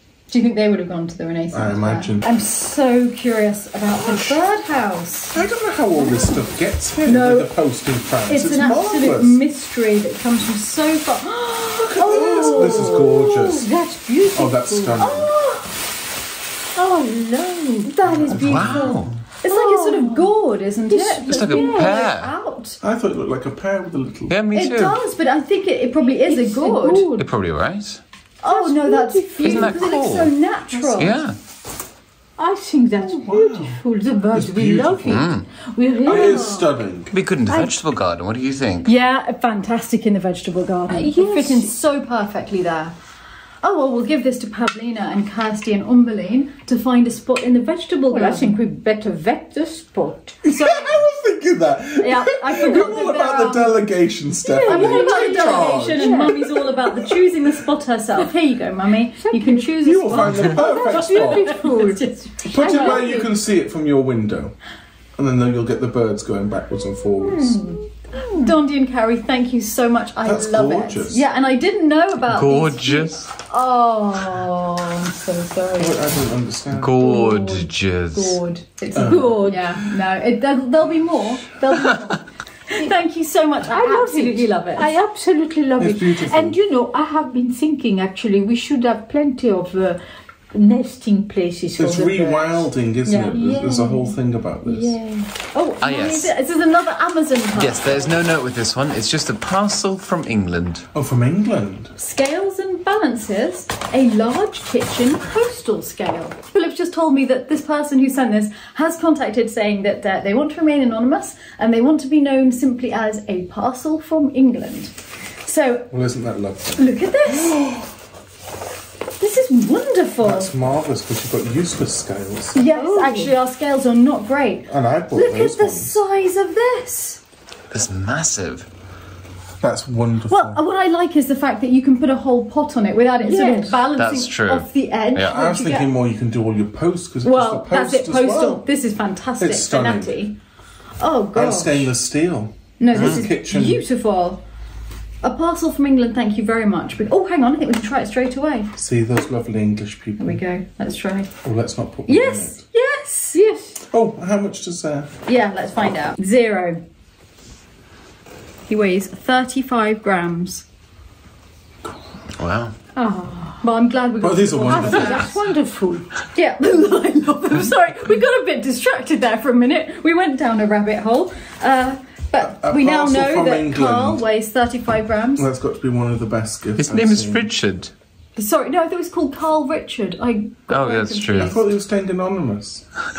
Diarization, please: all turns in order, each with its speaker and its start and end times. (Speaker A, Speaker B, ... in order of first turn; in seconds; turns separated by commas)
Speaker A: 0.3-5.4, Speaker B: 1.5-2.3, Speaker B: 4.0-4.4, Speaker B: 5.3-9.4, Speaker A: 7.0-7.5, Speaker A: 8.3-13.1, Speaker B: 11.9-13.7, Speaker C: 11.9-15.2, Speaker B: 14.3-15.3, Speaker A: 15.0-15.7, Speaker C: 16.8-17.9, Speaker A: 17.8-22.8, Speaker B: 18.1-19.0, Speaker D: 18.3-19.1, Speaker C: 19.4-20.3, Speaker C: 20.9-22.1, Speaker D: 21.3-22.3, Speaker B: 22.8-24.3, Speaker D: 24.3-25.0, Speaker A: 24.5-27.1, Speaker C: 26.2-27.2, Speaker D: 27.1-28.0, Speaker A: 28.4-31.2, Speaker C: 28.5-29.8, Speaker D: 29.4-30.3, Speaker D: 30.9-31.4, Speaker C: 32.4-36.5, Speaker B: 33.0-33.8, Speaker B: 34.3-35.3, Speaker D: 35.1-35.5, Speaker A: 36.0-36.7, Speaker B: 36.0-37.1, Speaker D: 37.1-38.9, Speaker A: 37.5-37.7, Speaker A: 38.8-42.9, Speaker C: 40.9-41.7, Speaker A: 43.6-48.6, Speaker C: 48.1-50.4, Speaker B: 50.4-57.3, Speaker A: 50.5-51.0, Speaker A: 52.0-53.7, Speaker C: 54.4-56.3, Speaker A: 54.6-63.2, Speaker C: 59.2-59.7, Speaker B: 59.8-61.6, Speaker C: 60.3-62.0, Speaker B: 62.5-64.5, Speaker C: 62.5-63.3, Speaker B: 65.2-67.6, Speaker C: 67.3-68.5, Speaker A: 67.6-76.0, Speaker B: 70.2-71.2, Speaker D: 72.3-73.2, Speaker B: 75.8-77.1, Speaker D: 76.7-78.4, Speaker A: 77.0-84.9, Speaker C: 78.9-79.8, Speaker B: 78.9-79.6, Speaker C: 83.7-90.0, Speaker B: 85.8-86.6, Speaker C: 90.5-95.3, Speaker B: 91.8-95.0, Speaker A: 93.1-93.4, Speaker A: 95.5-98.1, Speaker D: 95.8-96.3, Speaker D: 97.5-100.8, Speaker B: 100.9-101.9, Speaker A: 102.0-115.9, Speaker B: 115.9-117.9, Speaker A: 116.8-117.6, Speaker A: 119.2-120.5, Speaker B: 120.2-122.6, Speaker A: 122.5-127.2, Speaker C: 122.7-123.3, Speaker B: 124.7-126.0, Speaker D: 127.7-128.7, Speaker B: 129.6-130.6, Speaker A: 130.3-135.9, Speaker C: 133.2-133.9, Speaker D: 133.9-135.3, Speaker B: 135.3-138.6, Speaker A: 137.2-140.3, Speaker B: 139.4-140.2, Speaker A: 141.0-141.9, Speaker B: 141.3-143.8, Speaker A: 142.8-144.4, Speaker D: 142.9-143.2, Speaker A: 145.2-148.7, Speaker B: 148.8-150.4, Speaker A: 150.2-151.3, Speaker B: 151.4-152.6, Speaker A: 152.1-153.4, Speaker C: 153.3-153.8, Speaker B: 153.9-155.1, Speaker A: 155.3-156.8, Speaker A: 158.7-160.7, Speaker D: 162.4-162.7, Speaker C: 162.9-163.6, Speaker A: 163.6-165.4, Speaker B: 164.2-165.4, Speaker C: 164.6-166.1, Speaker A: 166.3-175.5, Speaker B: 172.4-174.2, Speaker B: 175.3-177.5, Speaker D: 176.8-177.9, Speaker A: 178.3-181.6, Speaker D: 180.7-181.6, Speaker B: 181.4-182.8